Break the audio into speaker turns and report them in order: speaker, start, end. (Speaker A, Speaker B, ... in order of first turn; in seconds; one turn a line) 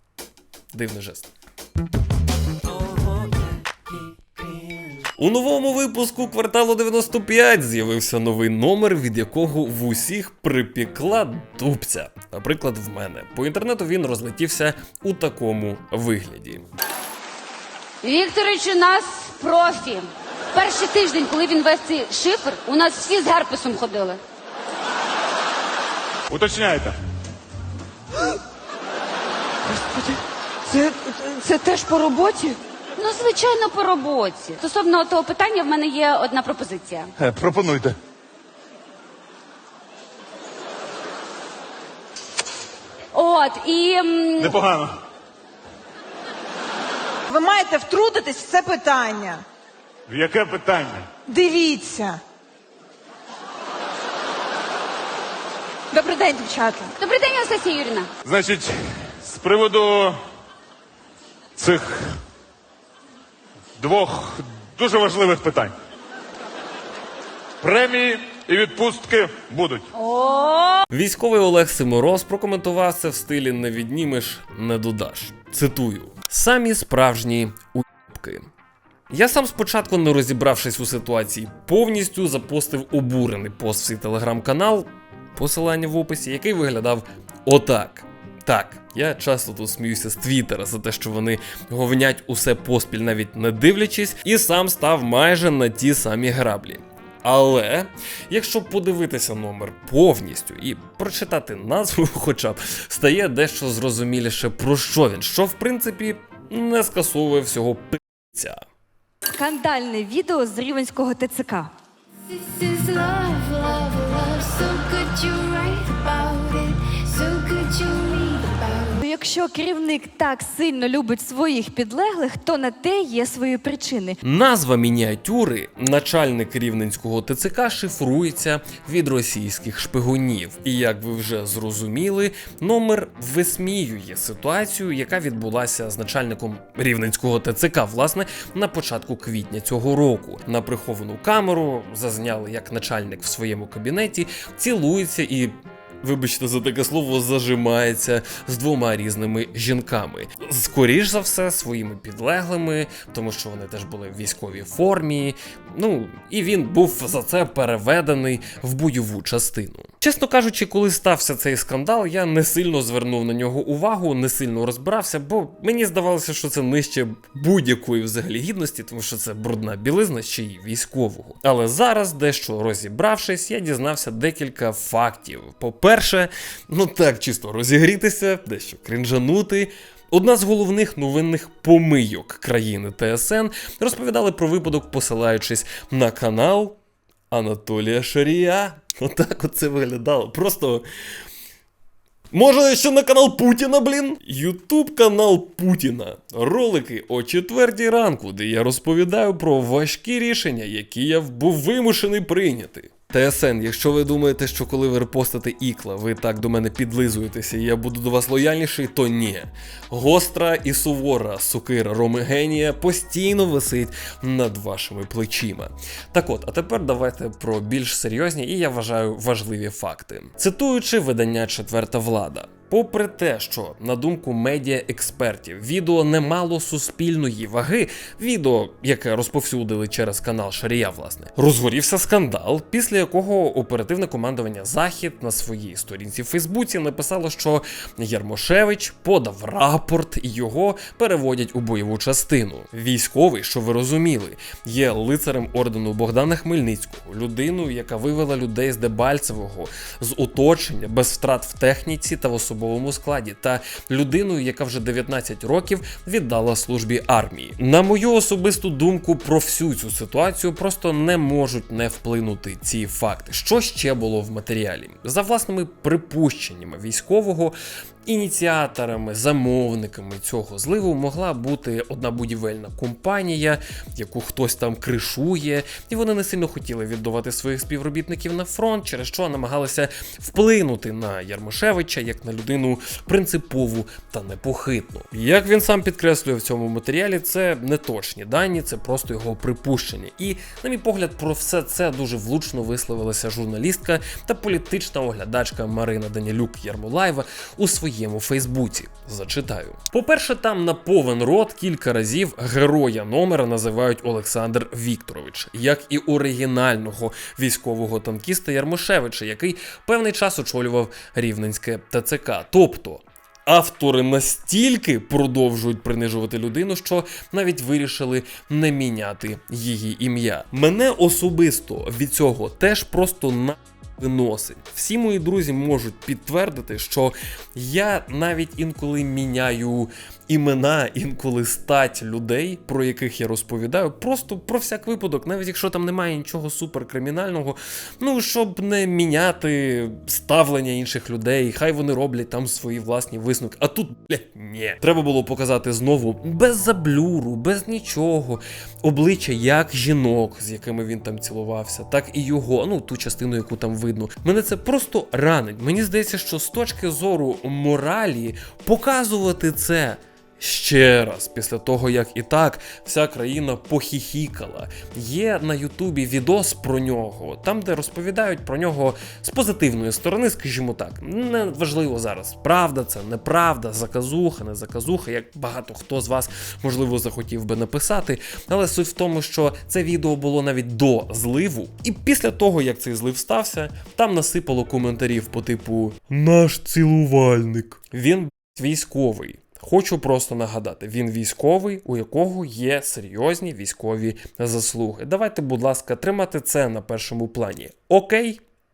Speaker A: 0.7-1.3
Speaker A: 5.2-16.6
Speaker B: 18.0-24.2
Speaker C: 26.3-27.0
Speaker B: 29.6-37.1
Speaker C: 37.2-38.0
Speaker B: 43.1-44.6
Speaker C: 44.4-45.0
Speaker D: 47.3-49.4
Speaker C: 50.1-51.1
Speaker D: 51.3-52.2
Speaker D: 55.9-57.0
Speaker B: 57.0-58.1
Speaker C: 58.2-60.2
Speaker C: 61.5-62.2
Speaker C: 63.8-65.7
Speaker C: 67.6-69.9
Speaker B: 70.0-70.8
Speaker A: 70.9-78.5
Speaker A: 79.1-108.6
Speaker E: 109.3-111.7
Speaker F: 112.3-119.0
Speaker E: 119.0-124.2
Speaker A: 124.2-186.8
Speaker A: 187.3-190.8
Speaker A: 192.3-398.4